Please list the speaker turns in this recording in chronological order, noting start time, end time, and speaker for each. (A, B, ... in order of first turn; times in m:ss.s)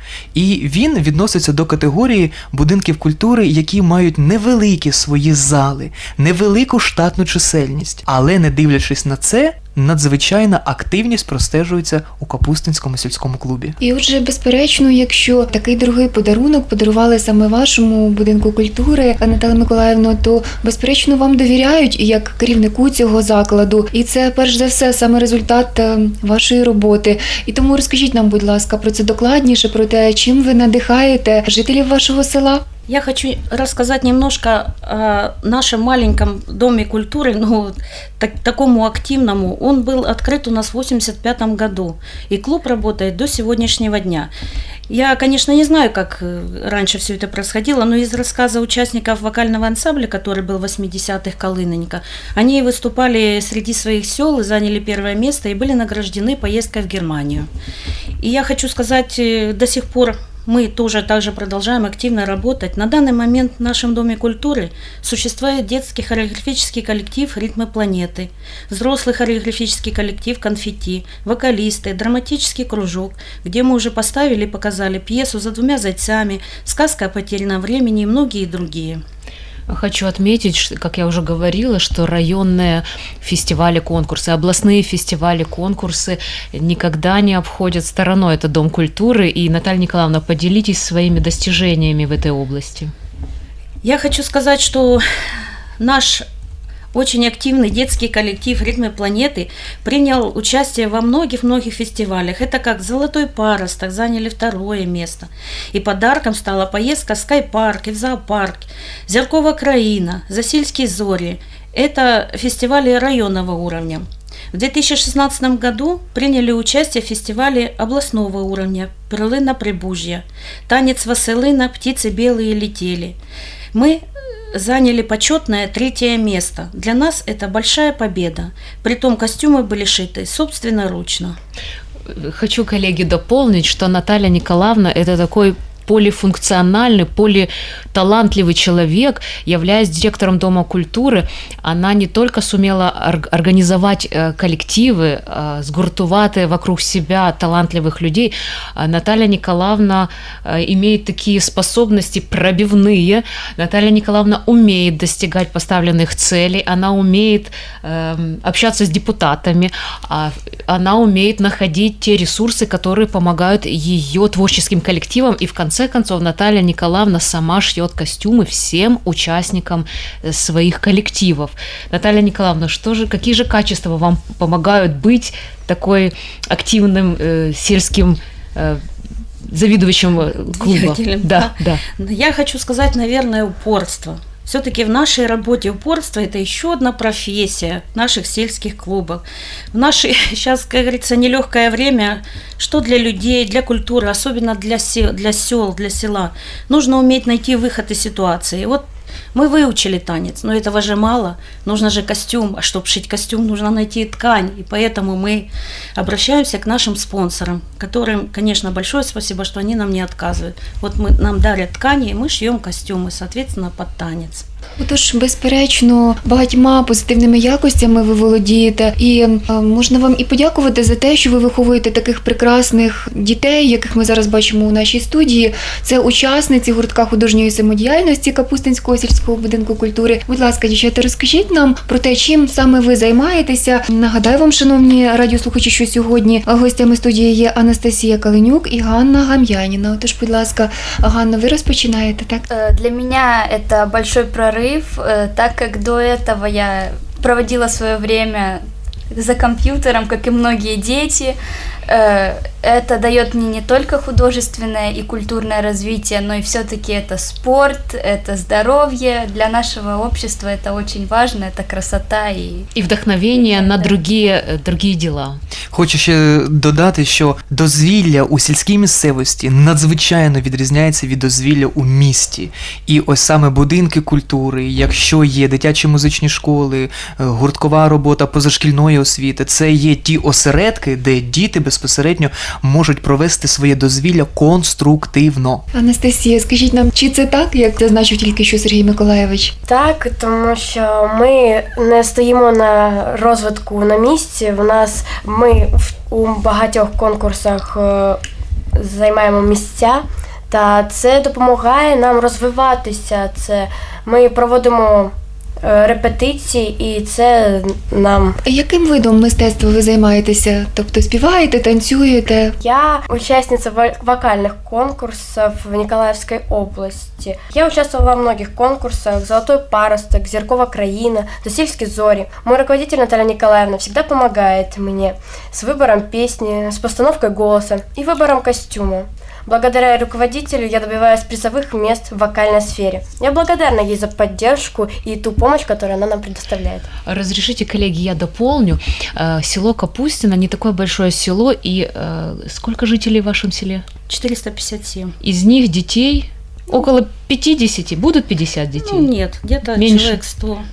0:00.3-0:13.7 A
0:13.8-0:32.6 B
0:32.9-0:44.3 C
0:44.9-0:57.5 C
0:58.2-1:19.0 C
1:19.7-1:32.9 D
1:33.8-1:35.0 C
1:35.8-1:36.2 C
1:36.9-2:03.2 C
2:03.7-2:04.0 C
2:04.5-2:11.4 C
2:12.1-2:58.8 D
2:59.4-3:01.8 D
3:00.5-3:18.8 C
3:19.3-3:34.4 C
3:34.8-4:02.4 B
4:02.5-4:08.6 E
4:09.1-4:11.4 E
4:11.9-4:22.6 E
4:22.7-4:25.4 D
4:25.7-4:45.6 A
4:45.7-4:49.5 B
4:49.7-4:58.2 F
4:58.8-5:05.1 F
5:05.6-5:08.3 F
5:08.4-5:12.5 B
5:12.6-5:36.9 F
5:37.1-5:43.8 D
5:44.1-5:45.1 C
5:45.2-5:49.1 D
5:48.8-5:50.6 C
5:49.7-5:50.2 D